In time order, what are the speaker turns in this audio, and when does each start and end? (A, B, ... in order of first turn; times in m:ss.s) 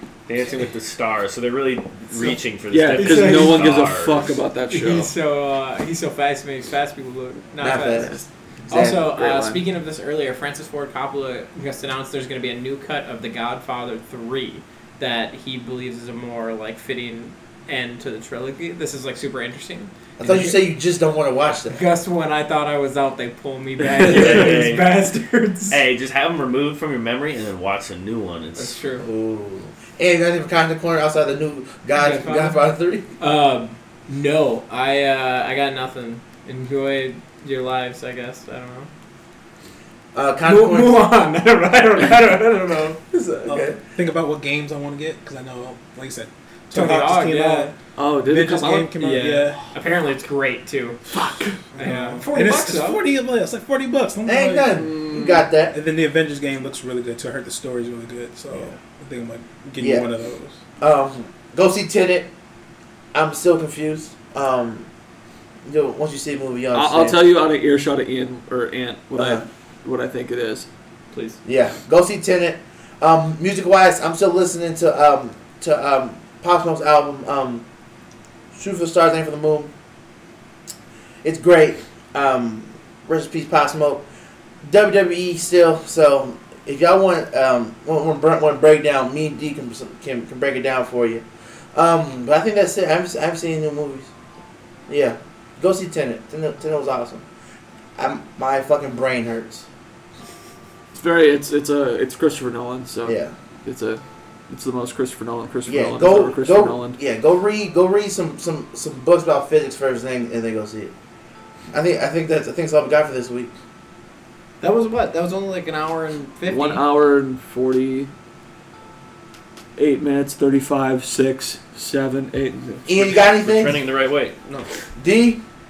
0:00.3-0:04.4 A
0:02.2-0:05.1 B
0:02.9-0:03.8 C
0:04.7-0:08.2 C
0:07.6-0:09.0 D
0:07.9-0:09.6 B
0:08.7-0:20.6 C
0:20.2-0:21.8 D
0:21.7-0:25.8 C
0:23.8-0:24.6 B
0:24.0-0:25.1 A
0:25.7-0:28.8 A
0:28.6-0:29.1 C
0:29.0-0:33.1 D
0:32.0-0:38.9 C
0:40.1-0:41.1 D
0:40.4-0:43.0 C
0:43.1-0:43.8 D
0:43.4-0:49.7 E
0:46.7-0:47.7 C
0:48.0-0:49.2 B
0:49.0-0:51.0 C
0:51.1-0:51.7 B
0:51.8-0:53.0 C
0:51.8-0:54.9 E
0:54.2-0:55.8 D
0:55.0-0:55.4 B
0:55.7-1:00.6 E
0:59.8-1:00.1 D
1:00.8-1:02.3 D
1:03.1-1:04.9 D
1:05.6-1:07.3 D
1:06.7-1:10.7 B
1:09.1-1:09.4 D
1:11.1-1:11.4 C
1:11.4-1:17.6 D
1:18.5-1:19.7 D
1:21.2-1:24.0 D
1:24.6-1:34.1 D
1:34.9-1:37.3 D
1:38.0-1:39.6 D
1:40.9-1:47.0 B
1:43.0-1:43.3 D
1:45.6-1:50.9 D
1:51.7-1:53.5 D
1:54.6-1:56.8 C
1:56.5-1:58.1 B
1:59.8-2:03.0 B
2:02.8-2:03.8 D
2:03.0-2:04.7 A
2:05.0-2:05.4 D